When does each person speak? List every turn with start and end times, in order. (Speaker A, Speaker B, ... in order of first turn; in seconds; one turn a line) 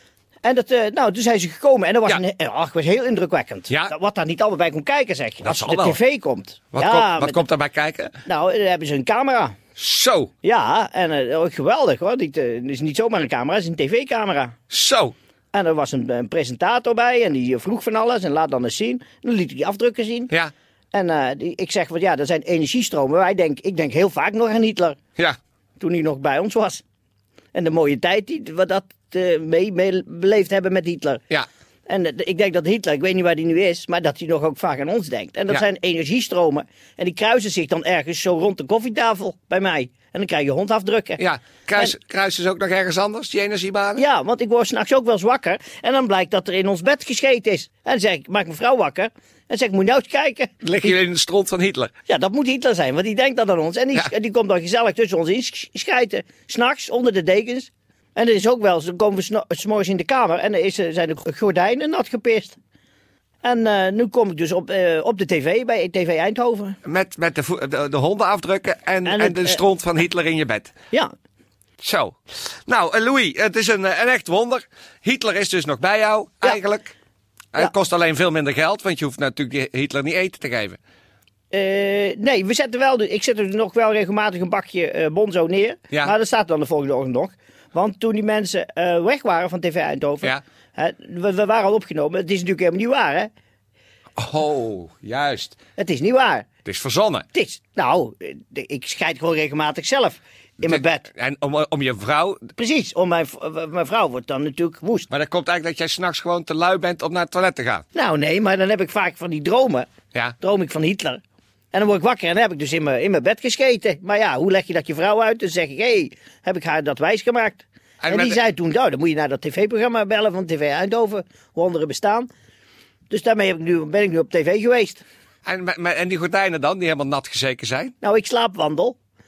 Speaker A: 0.4-7.4
Speaker B: 5.4-6.0
Speaker B: 6.7-8.1
Speaker A: 8.2-9.6
Speaker B: 9.8-10.3
Speaker A: 10.4-14.5
Speaker B: 14.7-15.1
Speaker A: 15.5-20.3
Speaker A: 20.9-25.0
Speaker A: 25.8-26.8
Speaker A: 27.5-31.2
Speaker A: 31.9-41.2
Speaker B: 41.2-44.0
Speaker A: 44.0-50.9
Speaker B: 50.6-51.9
Speaker A: 52.1-62.6
Speaker A: 63.4-66.8
Speaker B: 66.8-70.7
Speaker A: 69.0-69.6
Speaker B: 71.8-76.9
Speaker B: 77.5-80.8
Speaker A: 81.5-93.3
Speaker B: 94.2-95.6
Speaker A: 95.8-96.5
Speaker B: 96.6-97.2
Speaker A: 97.3-101.0
Speaker B: 100.6-102.5
Speaker A: 102.6-105.1
Speaker B: 105.1-107.8
Speaker A: 107.9-109.9
Speaker A: 110.4-122.3
Speaker B: 118.0-118.4
Speaker A: 123.1-125.0
Speaker B: 125.5-127.9
Speaker A: 128.0-128.9